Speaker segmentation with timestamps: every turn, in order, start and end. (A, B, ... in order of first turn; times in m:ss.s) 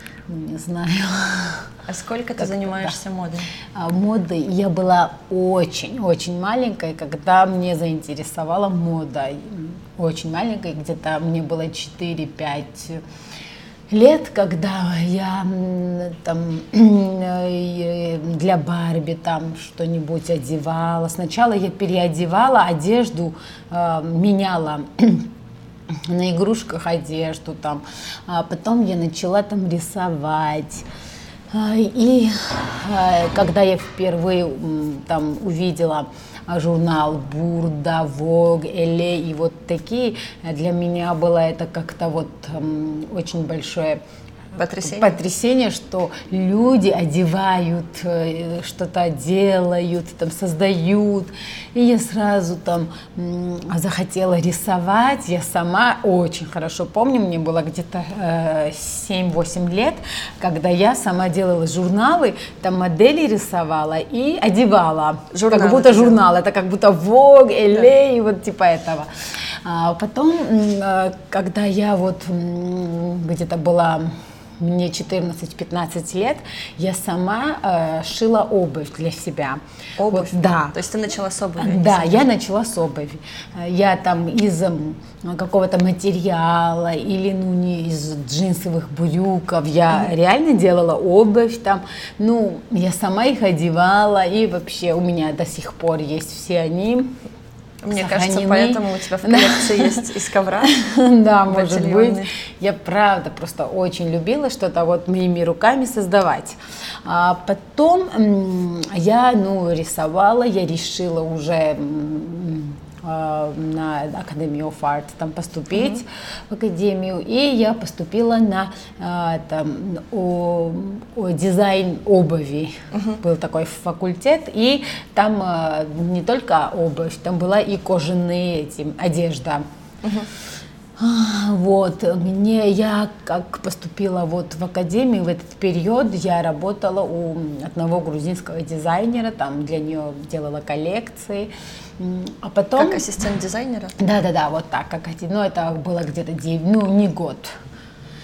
0:00.3-0:01.7 A
0:01.8-0:03.5 B
0:02.4-0:03.0 A
0:03.7-0:13.0 A
0:13.9-0:25.3 A
0:25.9-0:30.9 A
0:31.5-0:44.0 A
0:44.5-0:45.2 B
0:44.7-1:20.8 A
1:05.3-1:06.2 B
1:20.0-1:22.3 B
1:21.6-1:37.2 A
1:37.8-1:40.8 B
1:37.9-1:40.0 A
1:40.6-2:09.6 A
1:41.5-1:42.3 B
1:55.7-1:56.0 B
2:02.9-2:03.2 B
2:10.0-2:10.3 B
2:11.0-2:23.1 A
2:22.8-2:24.0 B
2:24.0-2:27.5 A